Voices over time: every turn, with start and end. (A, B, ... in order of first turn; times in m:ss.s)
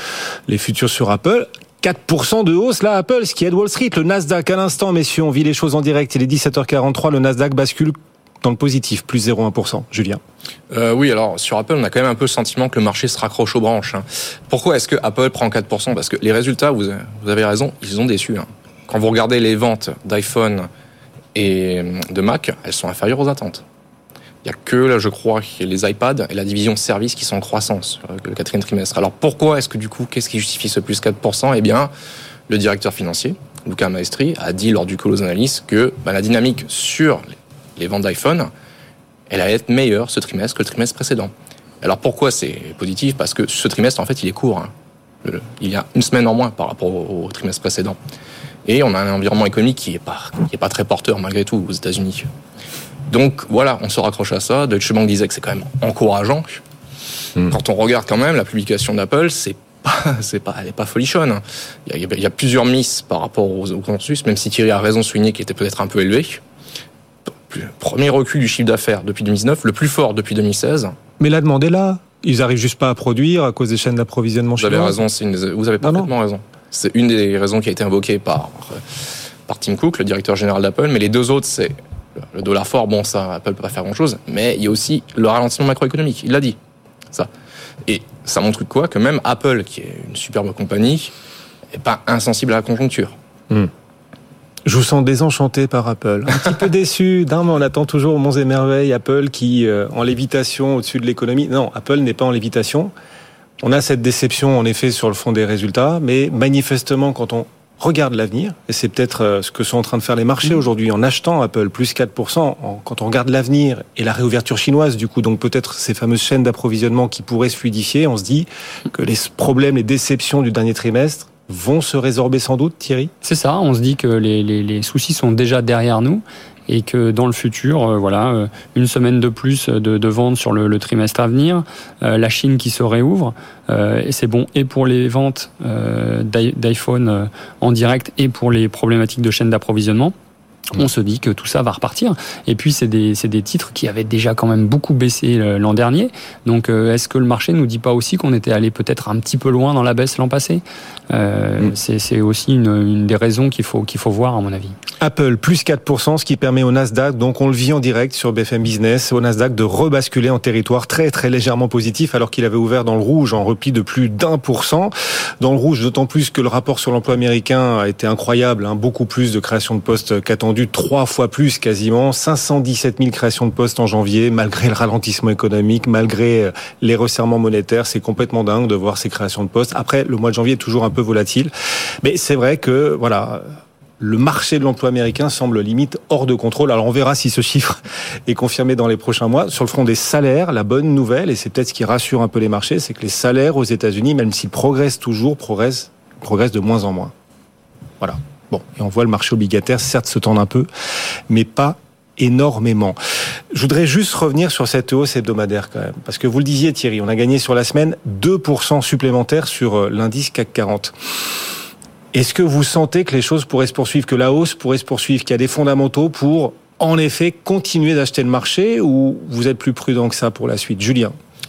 0:00.5-0:10.2 A
0:10.7-0:20.7 B
0:21.3-0:23.6 B
0:24.4-0:31.9 B
0:32.5-0:38.5 B
0:39.3-0:44.7 B
0:45.2-0:48.0 B
0:48.6-0:52.3 B
0:53.1-0:56.6 B
0:57.5-1:06.4 B
1:07.5-1:10.9 B
1:11.2-1:15.0 A
1:14.6-1:18.8 B
1:15.8-1:16.1 A
1:19.5-1:21.8 B
1:22.3-1:26.6 B
1:27.9-1:31.1 B
1:31.7-1:33.1 B
1:34.6-1:42.9 A
1:43.6-2:03.1 A
2:03.2-2:20.1 C
2:20.7-2:34.7 C
2:35.0-3:17.1 A
3:18.0-3:20.7 A
3:21.3-3:23.0 A
3:23.5-3:30.9 A
3:32.1-3:41.2 A